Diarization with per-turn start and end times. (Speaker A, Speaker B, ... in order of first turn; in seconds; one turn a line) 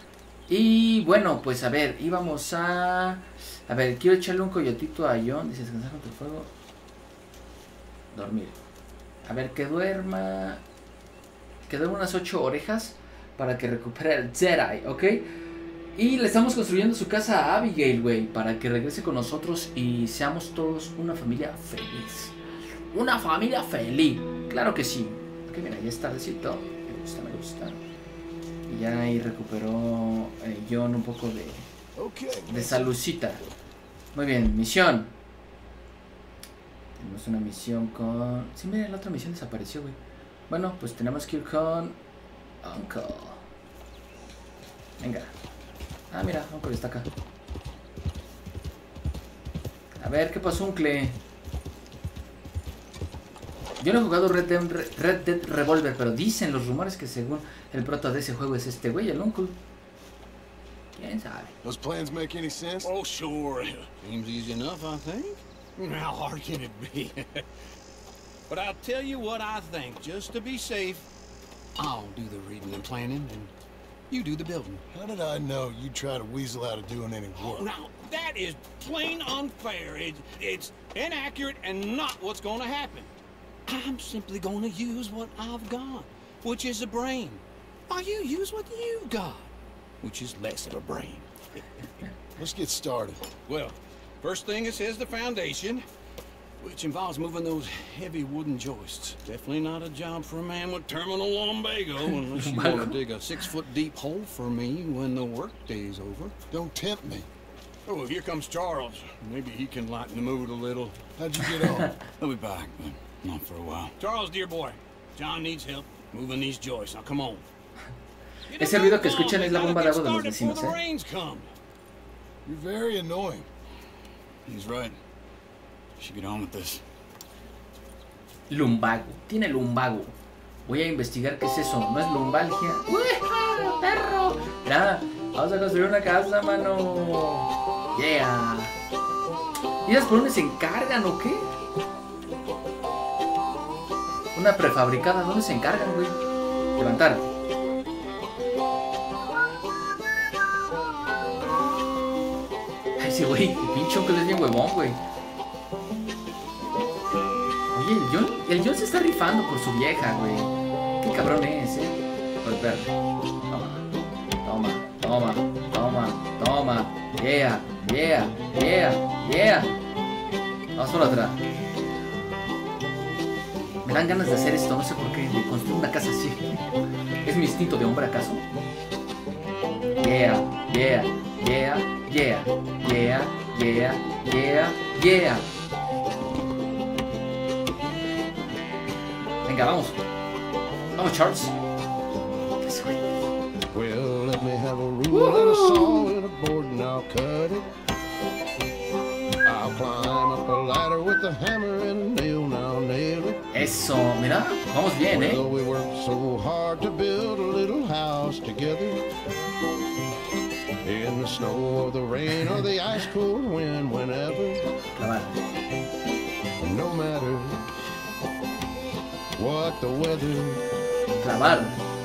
Speaker A: 0.5-6.5
Speaker A: 8.1-8.6
Speaker A: 9.2-10.6
Speaker A: 11.7-15.2
Speaker A: 15.9-22.4
Speaker A: 22.9-27.8
Speaker A: 28.7-31.7
Speaker B: 31.9-32.9
Speaker A: 32.5-33.4
Speaker A: 34.1-35.1
Speaker A: 37.0-40.0
Speaker A: 40.5-42.0
Speaker A: 42.6-43.4
Speaker A: 45.0-45.3
Speaker A: 46.1-47.1
Speaker A: 50.0-51.2
Speaker A: 53.8-59.6
Speaker A: 61.0-61.5
Speaker B: 61.6-62.9
Speaker C: 62.8-67.4
Speaker C: 68.5-71.0
Speaker C: 71.8-73.5
Speaker C: 74.1-74.8
Speaker B: 74.9-77.7
Speaker C: 77.4-83.1
Speaker C: 83.7-91.6
Speaker B: 92.4-93.2
Speaker C: 93.5-95.8
Speaker C: 96.6-106.3
Speaker A: 102.3-103.0
Speaker B: 106.5-107.3
Speaker C: 107.9-111.0
Speaker B: 111.2-111.9
Speaker A: 111.6-112.0
Speaker D: 112.2-113.9
Speaker C: 114.0-117.4
Speaker C: 118.5-121.5
Speaker A: 118.5-120.8
Speaker B: 122.5-123.5
Speaker D: 124.5-124.9
Speaker D: 126.0-126.8
Speaker A: 128.5-138.7
Speaker A: 139.8-141.5
Speaker A: 144.3-146.2
Speaker A: 146.8-147.3
Speaker A: 153.0-155.0
Speaker A: 157.7-162.9
Speaker A: 163.5-163.8
Speaker A: 164.4-169.7
Speaker A: 170.7-171.4
Speaker A: 173.8-176.6
Speaker A: 177.2-178.4
Speaker A: 180.0-185.5
Speaker A: 189.4-190.0
Speaker A: 190.9-191.6
Speaker A: 192.6-193.1
Speaker D: 193.7-197.7
Speaker A: 195.1-196.1
Speaker D: 199.4-203.4
Speaker A: 203.5-205.4
Speaker D: 205.1-209.0
Speaker D: 210.8-214.6
Speaker A: 214.9-215.4
Speaker D: 216.6-217.6
Speaker D: 219.4-220.6
Speaker A: 221.2-221.8